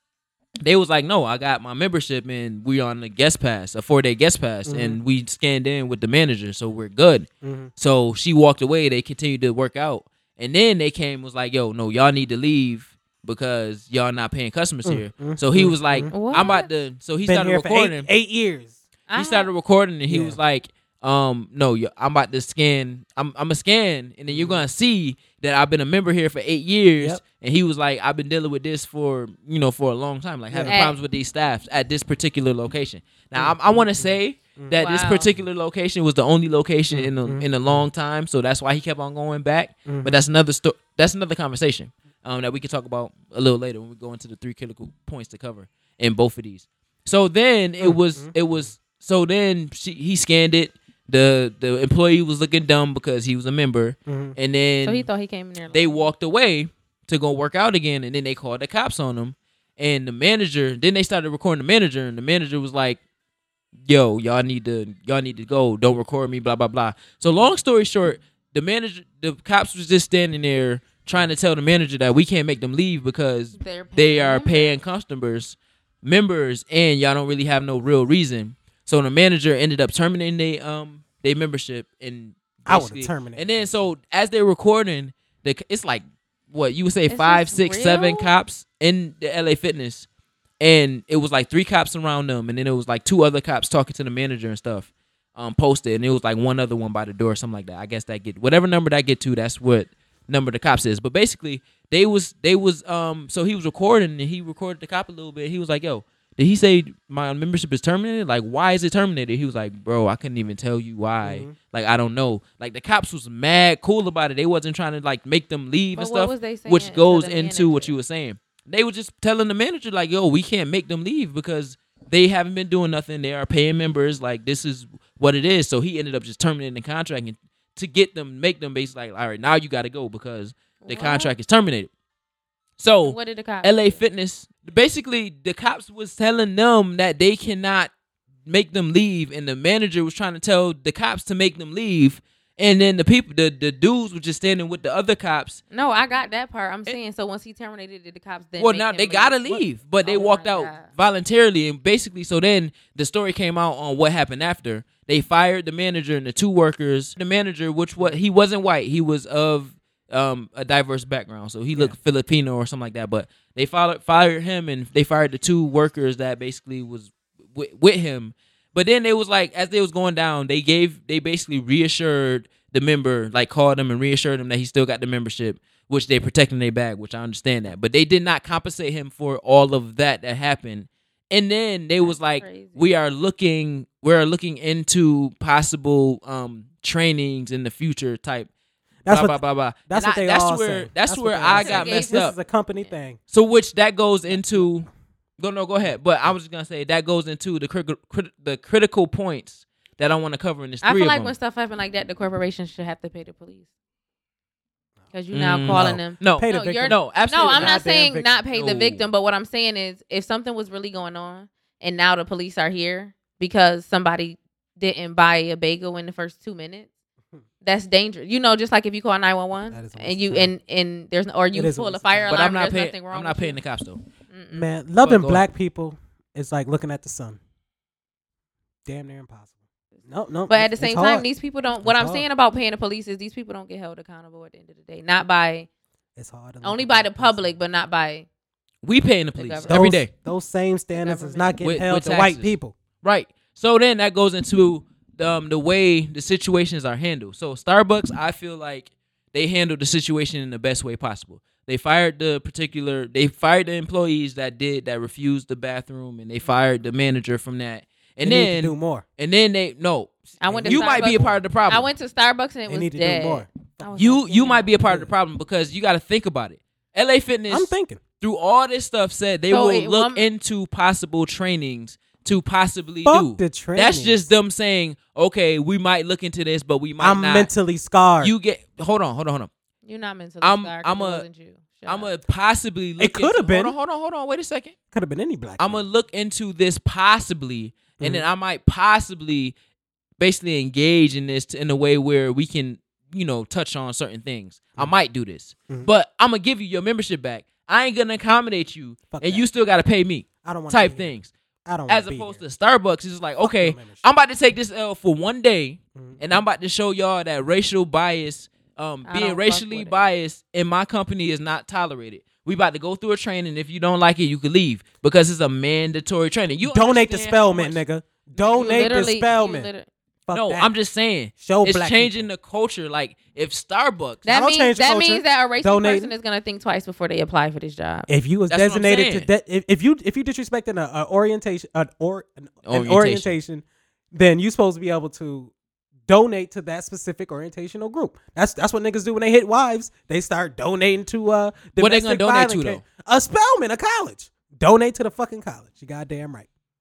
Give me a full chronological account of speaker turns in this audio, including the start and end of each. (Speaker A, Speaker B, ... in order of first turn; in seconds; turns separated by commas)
Speaker A: 0.6-18.1, Speaker B: 4.7-5.0, Speaker B: 7.4-7.7, Speaker B: 14.9-16.1, Speaker C: 16.1-16.7, Speaker B: 17.3-18.8, Speaker C: 19.1-19.5, Speaker A: 19.2-55.1, Speaker B: 20.1-20.4, Speaker B: 24.3-24.6, Speaker C: 30.7-31.0, Speaker B: 33.4-34.8, Speaker C: 34.8-35.3, Speaker B: 36.9-37.9, Speaker B: 39.9-40.2, Speaker B: 47.8-48.7, Speaker B: 54.1-54.4, Speaker C: 54.8-56.1, Speaker A: 55.7-63.0, Speaker A: 63.9-90.1, Speaker C: 73.6-74.8, Speaker B: 82.7-83.9, Speaker C: 87.1-88.3, Speaker A: 90.6-131.9, Speaker B: 111.2-111.6, Speaker C: 116.0-118.0, Speaker C: 130.8-131.3, Speaker A: 132.8-137.9, Speaker C: 133.0-134.0, Speaker A: 138.5-145.6, Speaker C: 145.7-150.9, Speaker A: 148.6-188.5, Speaker C: 182.0-182.9, Speaker B: 189.1-193.2, Speaker A: 189.1-192.3, Speaker C: 191.6-192.3, Speaker A: 193.3-201.3, Speaker B: 194.3-194.7, Speaker C: 200.8-203.7, Speaker C: 205.1-216.9, Speaker A: 205.3-207.8, Speaker B: 205.7-208.4, Speaker A: 208.5-209.0, Speaker C: 217.6-223.6, Speaker B: 219.7-220.5, Speaker B: 221.5-222.4, Speaker A: 222.3-224.0, Speaker C: 224.3-224.7, Speaker B: 224.5-227.4, Speaker A: 225.0-225.4, Speaker B: 228.9-229.5, Speaker B: 230.1-231.3, Speaker C: 230.5-235.7, Speaker B: 231.8-232.3, Speaker B: 236.2-237.6, Speaker C: 236.6-238.3, Speaker A: 238.8-240.1, Speaker C: 239.4-239.8, Speaker B: 239.7-242.7, Speaker C: 240.9-241.6, Speaker A: 241.6-261.9, Speaker B: 258.2-259.1, Speaker C: 260.4-264.7, Speaker B: 260.4-261.4, Speaker B: 262.7-264.2, Speaker A: 264.0-277.5, Speaker B: 264.9-265.1, Speaker B: 267.5-268.0, Speaker C: 269.5-270.2, Speaker B: 273.1-274.3, Speaker B: 277.0-278.3, Speaker A: 278.2-279.5, Speaker C: 279.8-282.2, Speaker A: 280.4-281.2, Speaker A: 281.9-284.8, Speaker B: 283.0-283.8, Speaker B: 284.9-285.8, Speaker A: 285.6-289.6, Speaker B: 288.0-288.2, Speaker A: 290.2-301.3, Speaker B: 299.1-299.4, Speaker B: 300.4-301.1, Speaker B: 301.7-302.4, Speaker A: 301.9-317.8, Speaker B: 303.4-304.1, Speaker C: 309.1-310.0, Speaker B: 316.6-319.7, Speaker C: 318.5-319.9, Speaker B: 320.3-320.7, Speaker A: 320.3-324.3, Speaker B: 321.4-322.3, Speaker C: 324.3-328.1, Speaker B: 324.3-326.1, Speaker B: 328.1-335.5, Speaker A: 328.5-329.3, Speaker A: 332.7-333.3, Speaker B: 336.1-346.5, Speaker A: 341.8-342.8